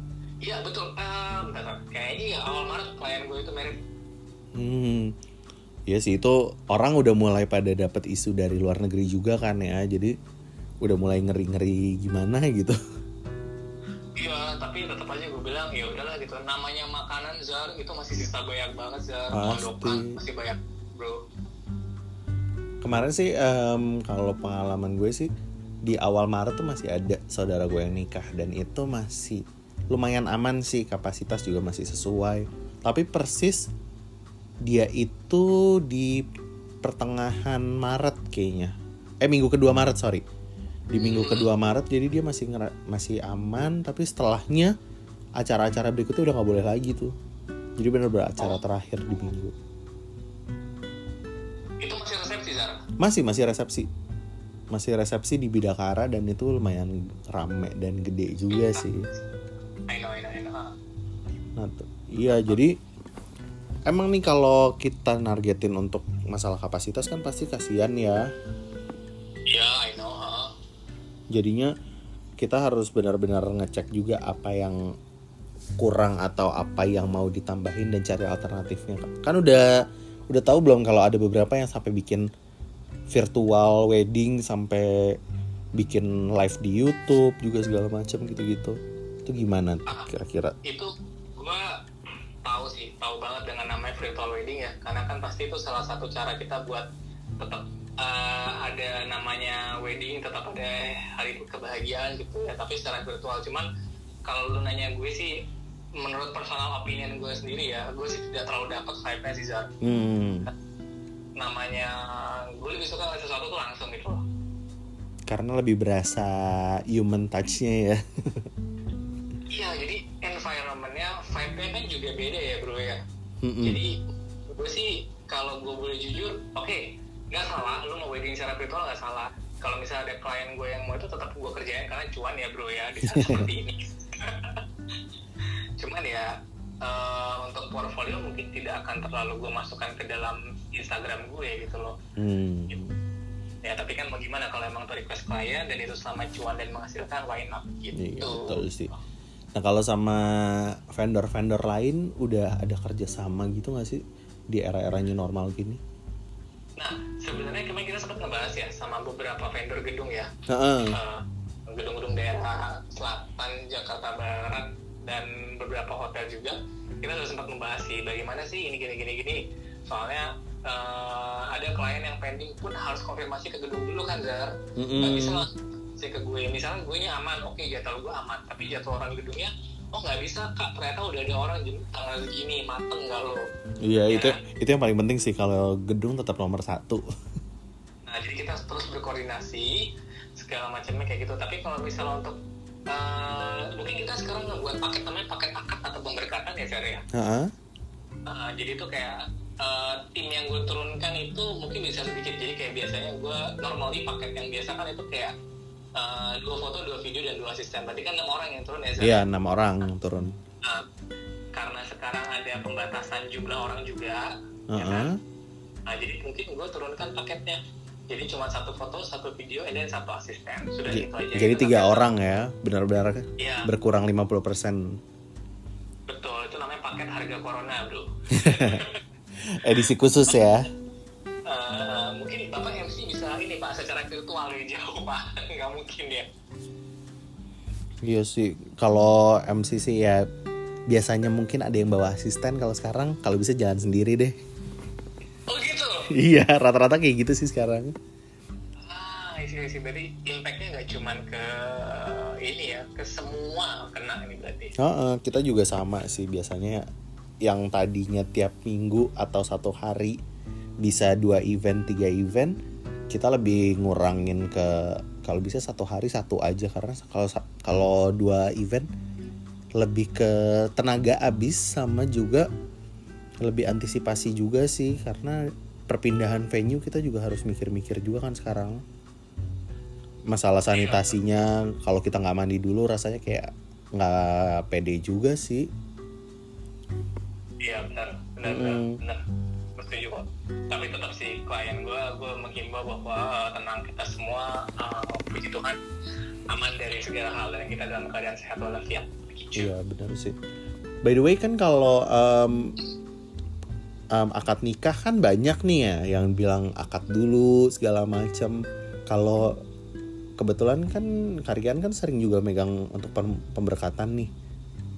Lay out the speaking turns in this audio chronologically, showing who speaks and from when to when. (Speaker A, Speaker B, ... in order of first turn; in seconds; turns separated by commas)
Speaker A: 0.4-3.8, Speaker B: 4.5-5.1, Speaker B: 5.9-10.1, Speaker B: 10.8-12.8, Speaker A: 14.2-21.2, Speaker B: 19.3-20.2, Speaker B: 22.8-25.3, Speaker B: 25.8-33.7, Speaker B: 34.6-36.2, Speaker B: 36.8-40.2, Speaker B: 40.9-44.8, Speaker A: 41.0-41.5, Speaker B: 45.4-47.1, Speaker B: 47.8-49.5, Speaker A: 51.8-52.8, Speaker B: 53.0-53.9, Speaker B: 54.7-59.1, Speaker A: 58.5-58.9, Speaker A: 59.9-60.7, Speaker B: 61.6-62.8, Speaker B: 63.9-68.2, Speaker A: 69.5-70.5, Speaker B: 71.3-71.7, Speaker B: 72.4-74.8, Speaker B: 75.8-79.7, Speaker B: 80.3-82.3, Speaker B: 83.1-85.2, Speaker B: 85.8-90.5, Speaker A: 90.6-91.8, Speaker A: 92.4-96.9, Speaker A: 97.4-103.7, Speaker A: 104.2-105.3, Speaker A: 106.0-109.7, Speaker B: 109.8-110.5, Speaker A: 111.4-114.2, Speaker B: 115.3-118.5, Speaker A: 119.5-123.0, Speaker B: 123.4-123.8, Speaker A: 123.6-134.6, Speaker B: 133.0-133.5, Speaker A: 135.8-142.0, Speaker B: 142.2-143.0, Speaker A: 143.6-149.0, Speaker B: 147.9-148.9, Speaker B: 149.6-155.8, Speaker A: 156.8-160.3, Speaker B: 160.5-161.0, Speaker A: 160.9-183.4, Speaker B: 174.8-175.4, Speaker B: 183.8-187.0, Speaker A: 184.1-184.4, Speaker A: 188.1-192.4, Speaker A: 192.9-197.0, Speaker B: 197.1-197.5, Speaker A: 198.3-205.3, Speaker A: 205.9-209.2, Speaker B: 209.0-210.3, Speaker A: 211.6-215.1, Speaker B: 214.7-215.2, Speaker A: 215.9-217.6, Speaker A: 218.1-222.1, Speaker B: 220.9-225.0, Speaker A: 223.4-223.7, Speaker A: 226.1-229.0, Speaker B: 228.4-228.8, Speaker B: 229.4-230.7, Speaker A: 231.5-236.3, Speaker B: 238.0-240.3, Speaker B: 240.9-244.4, Speaker A: 245.5-246.1, Speaker B: 246.1-247.9, Speaker A: 248.9-254.7, Speaker B: 254.8-256.9, Speaker B: 257.4-260.2, Speaker B: 260.8-262.6, Speaker B: 263.1-268.9, Speaker B: 269.8-272.5, Speaker B: 273.4-275.4, Speaker B: 275.9-278.8, Speaker B: 280.3-285.7, Speaker A: 280.7-281.1, Speaker A: 287.6-289.2, Speaker B: 288.4-289.0, Speaker A: 289.8-295.8, Speaker A: 296.5-299.7, Speaker B: 299.6-300.4, Speaker B: 301.0-302.8, Speaker B: 304.1-308.6, Speaker B: 309.1-309.6, Speaker B: 310.4-314.3